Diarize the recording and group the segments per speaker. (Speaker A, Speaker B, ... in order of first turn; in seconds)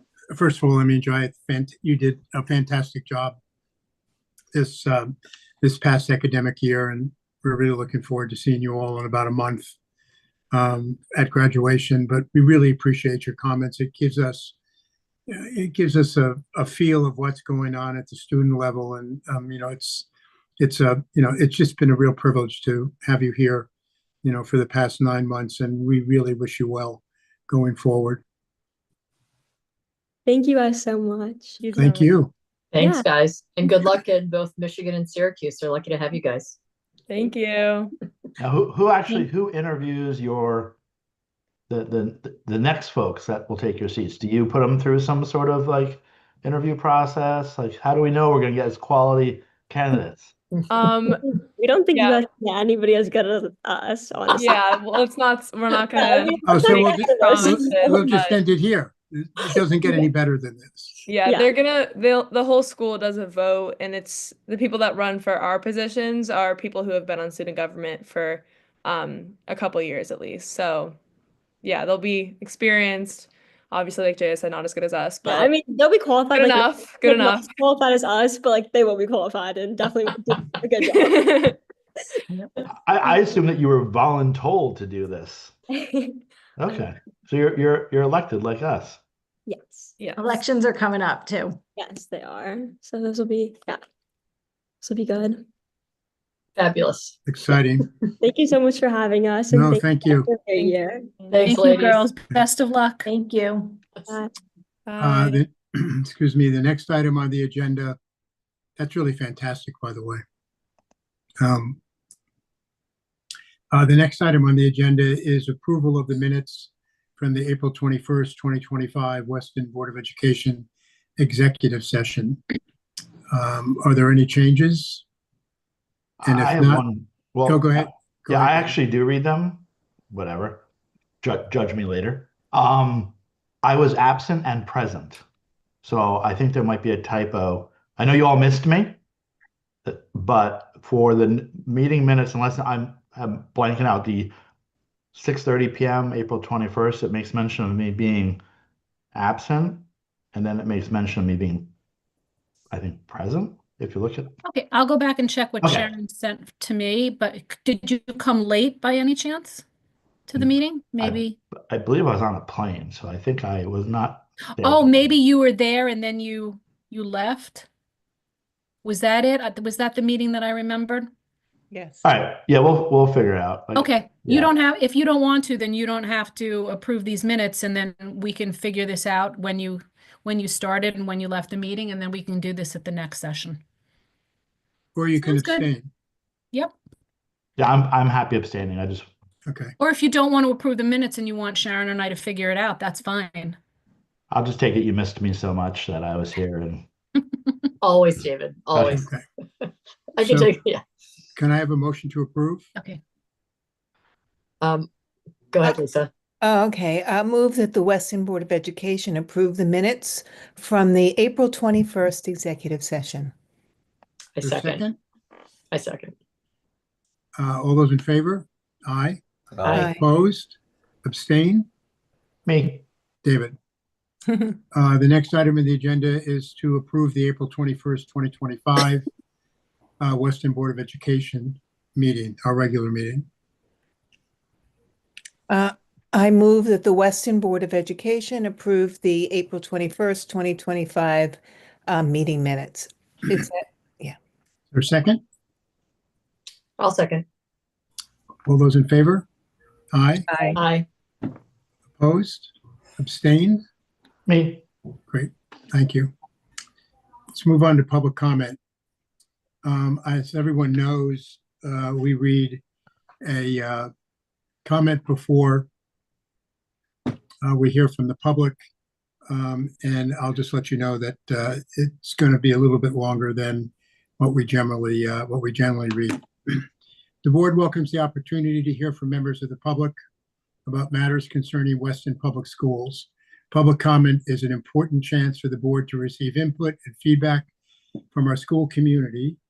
Speaker A: 0.3-3.4, 4.5-9.8, 10.5-14.6, 15.3-20.1, 20.6-23.7, 24.2-28.2, 31.8-32.3, 56.5-61.0, 97.3-97.9, 99.5-100.3, 105.0-108.0, 108.8-110.2, 111.4-111.8, 113.7-120.7, 121.2-122.4, 123.3-125.0, 126.2-126.8, 127.5-128.8, 184.9-185.9, 189.5-189.7, 198.9-199.2, 200.2-200.5, 201.4-202.7, 214.4-215.0, 217.4-219.2, 219.7-221.7, 223.2-223.6, 224.7-229.0, 230.0-233.2, 244.7-245.2, 248.5-249.3, 249.9-250.3, 252.0-253.6, 255.1-256.1, 257.3-258.6, 259.6-262.6, 263.2-263.9, 264.6-265.7, 267.4-268.6, 269.3-276.7, 277.2-279.9, 280.7-287.5, 288.1-289.4
Speaker B: 30.3-31.6, 32.8-33.1, 51.2-55.0, 55.9-58.1, 61.2-61.5, 75.3-81.5, 85.8-86.2, 89.5-90.0, 91.8-93.8, 94.8-95.5, 98.2-101.1
Speaker C: 31.6-32.2, 37.1-37.9, 50.7-51.2, 51.9-52.2, 54.3-58.4, 61.1-71.0, 71.6-75.5, 76.3-77.5, 80.8-81.6, 90.0-90.4, 100.6-101.3, 104.9-105.4
Speaker D: 32.7-36.6, 96.6-97.2, 101.3-102.0, 197.8-199.0, 199.7-200.8, 204.6-204.9, 205.5-206.1, 214.4-214.8, 215.7-216.1, 246.8-247.2, 250.6-250.8
Speaker E: 38.4-40.8, 41.7-50.4, 82.7-85.5, 86.6-89.0, 126.2-130.6, 131.2-135.2, 135.8-139.0, 139.8-144.3, 145.1-148.4, 149.1-151.7, 152.7-154.4, 155.6-155.9, 160.3-165.2, 172.0-174.5, 187.6-189.1, 194.3-196.9, 198.7-199.0, 222.5-222.8, 254.3-254.7
Speaker F: 90.2-91.6, 103.1-103.8
Speaker G: 101.4-103.1, 154.4-159.7, 160.3-161.4, 164.4-167.7, 168.8-171.1, 173.8-183.6, 185.2-185.7, 189.8-193.6
Speaker H: 171.7-172.0, 206.4-213.3, 219.7-220.0, 235.5-244.2, 250.3-250.6